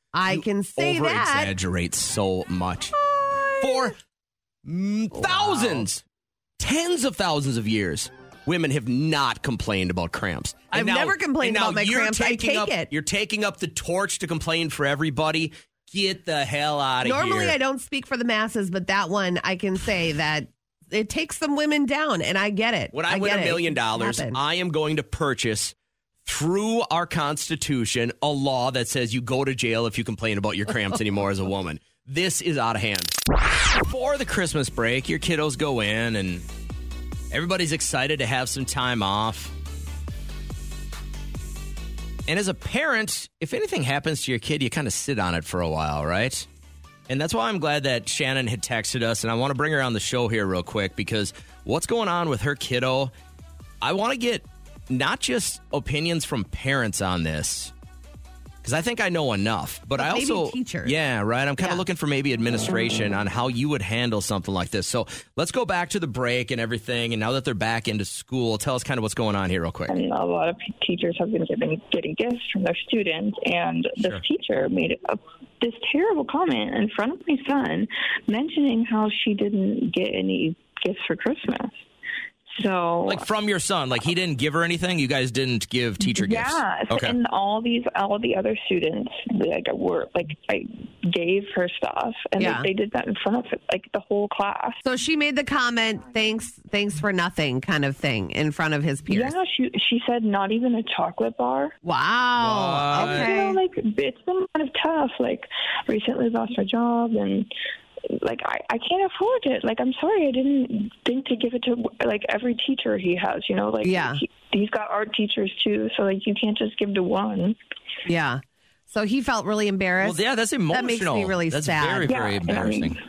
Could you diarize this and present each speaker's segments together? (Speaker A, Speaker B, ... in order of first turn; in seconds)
Speaker A: 0.1-1.5, 5.1-5.8, 10.7-12.9, 17.0-24.4, 60.0-60.9, 92.4-92.7, 94.8-99.3, 101.8-103.6, 113.8-114.2, 118.0-120.2, 120.7-122.1
Speaker B: 0.3-3.0, 3.6-4.0, 4.6-6.0, 6.6-17.6, 22.9-33.1, 33.7-36.4, 37.3-39.5, 42.3-46.5, 47.1-53.1, 53.8-57.7, 58.6-70.0, 83.0-87.2, 102.4-103.3, 120.0-123.0
Speaker C: 69.9-81.7, 82.5-83.3, 86.0-94.8, 99.1-101.7, 102.9-107.5, 108.0-117.5, 122.1-123.0